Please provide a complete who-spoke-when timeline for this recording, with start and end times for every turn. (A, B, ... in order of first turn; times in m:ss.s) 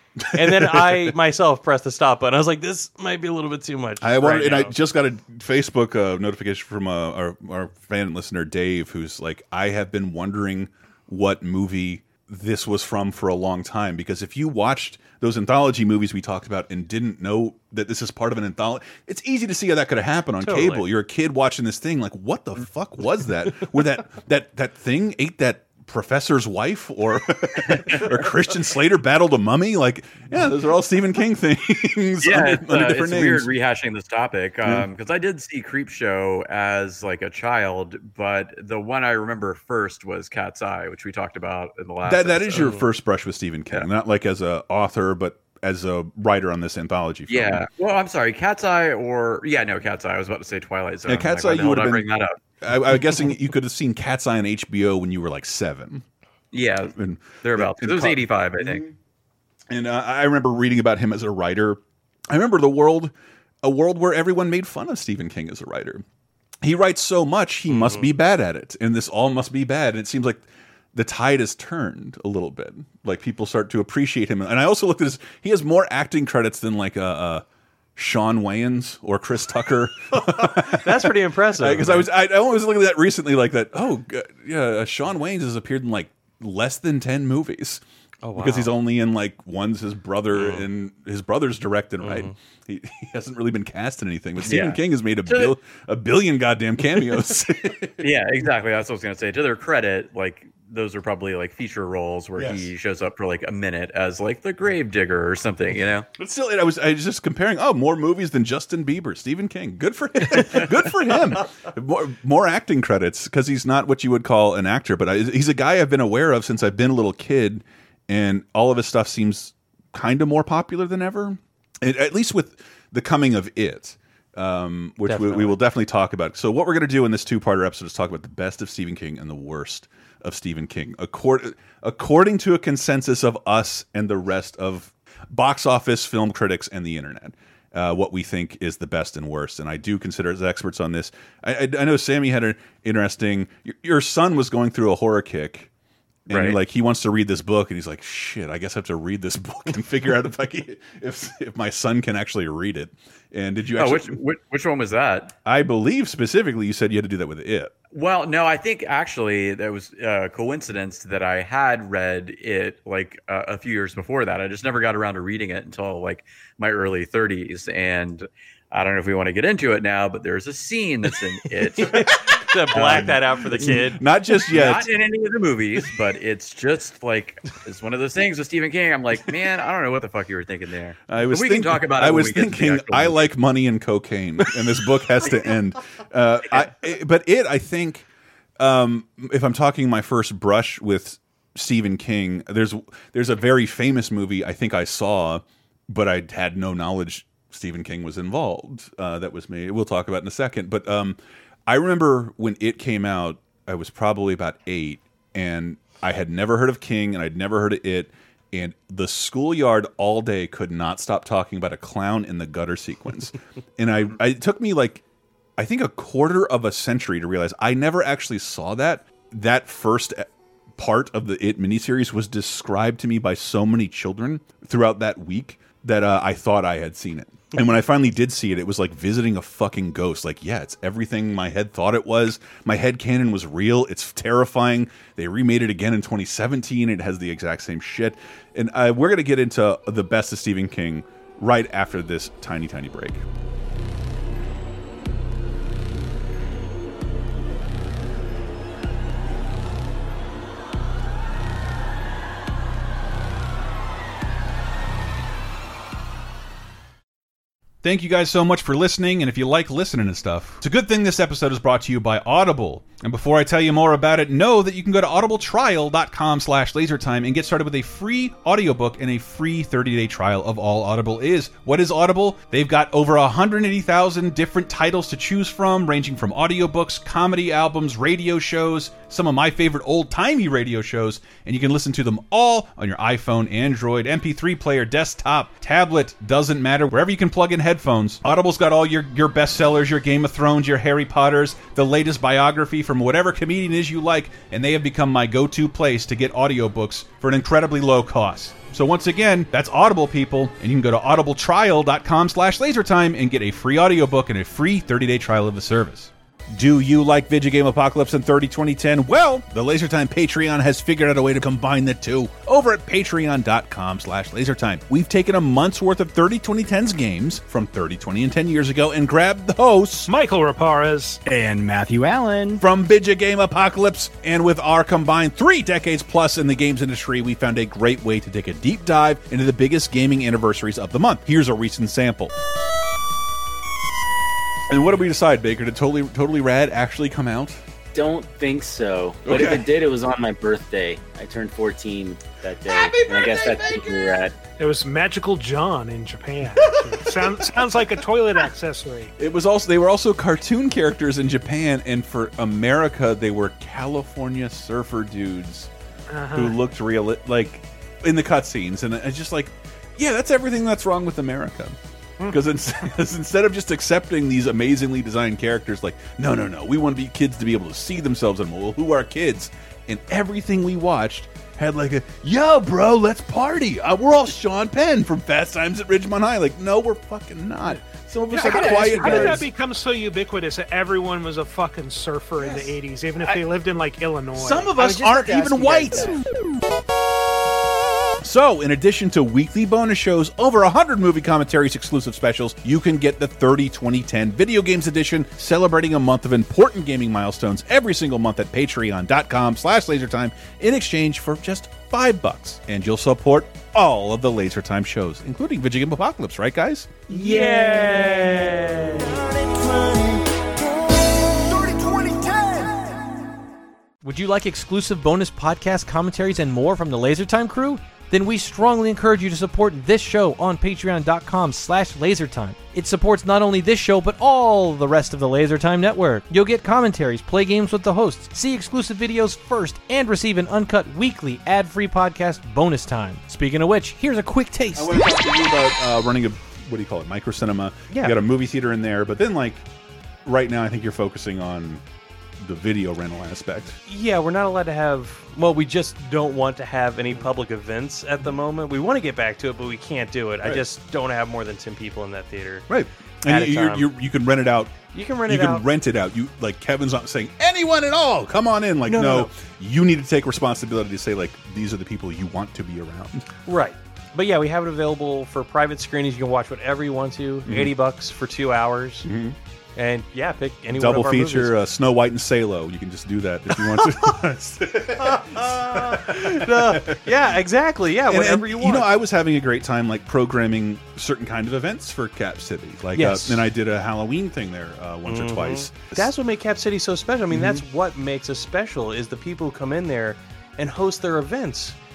0:00.2-0:01.1 A
0:00.3-0:04.7 B
0:04.0-0:33.5 A
0:20.4-0:20.9 B
0:32.2-0:42.7 C
0:42.0-0:47.6 A
0:42.6-0:42.9 B
0:47.3-0:52.3 C
0:51.1-0:56.0 A
0:56.5-0:58.8 C
0:56.9-0:58.9 A
0:59.7-1:03.1 A
1:03.6-1:06.0 A
1:06.6-1:17.4 A
1:07.7-1:08.1 B
1:18.0-1:27.8 A
1:20.1-1:22.1 B
1:28.2-1:28.7 B
1:28.4-1:38.0 A
1:32.0-1:32.3 B
1:34.4-1:35.5 C
1:38.0-1:46.1 C
1:42.4-1:42.7 A
1:46.2-2:25.7 A
2:05.0-2:05.6 B
2:26.3-2:34.2 A
2:26.3-2:26.6 C
2:33.8-2:35.3 C
2:35.4-2:37.7 A
2:37.9-2:52.0 C
2:51.8-2:54.0 B
2:51.8-2:52.1 A
2:52.7-2:54.9 A
2:52.7-2:53.1 C
2:54.5-3:03.2 C
3:01.1-3:08.0 A
3:08.6-3:35.0 A
3:35.6-4:03.2 A
4:17.8-5:20.1 A
5:20.0-5:21.2 D
5:21.2-5:22.5 E
5:22.6-5:32.3 A
5:34.7-5:37.6 A
5:37.9-5:44.4 E
5:39.2-5:39.7 A
5:42.7-5:44.2 A
5:44.6-5:49.1 D
5:46.5-5:48.0 A
5:49.2-5:55.7 A
5:56.1-5:56.6 D
5:56.3-6:19.5 A
6:18.3-6:24.8 D
6:18.7-6:19.3 B
6:22.4-6:23.4 A
6:24.3-6:26.2 A
6:24.8-6:25.9 E
6:28.2-6:46.9 A
6:47.1-6:48.0 D
6:54.0-7:15.1 F
7:14.7-7:19.6 A
7:17.9-7:18.2 B
7:20.2-7:21.8 A
7:22.4-7:23.8 A
7:23.9-7:32.7 B
7:32.7-7:43.3 A
7:33.2-7:33.9 B
7:34.9-7:35.7 B
7:38.8-7:39.3 B
7:43.4-7:49.1 B
7:47.4-7:47.7 A
7:49.0-7:49.4 A
7:49.7-7:51.6 B
7:50.7-7:57.1 A
7:53.5-7:54.1 B
7:55.0-7:58.9 B
7:58.1-8:06.1 A
8:02.9-8:03.5 B
8:05.0-8:11.8 B
8:07.3-8:07.6 A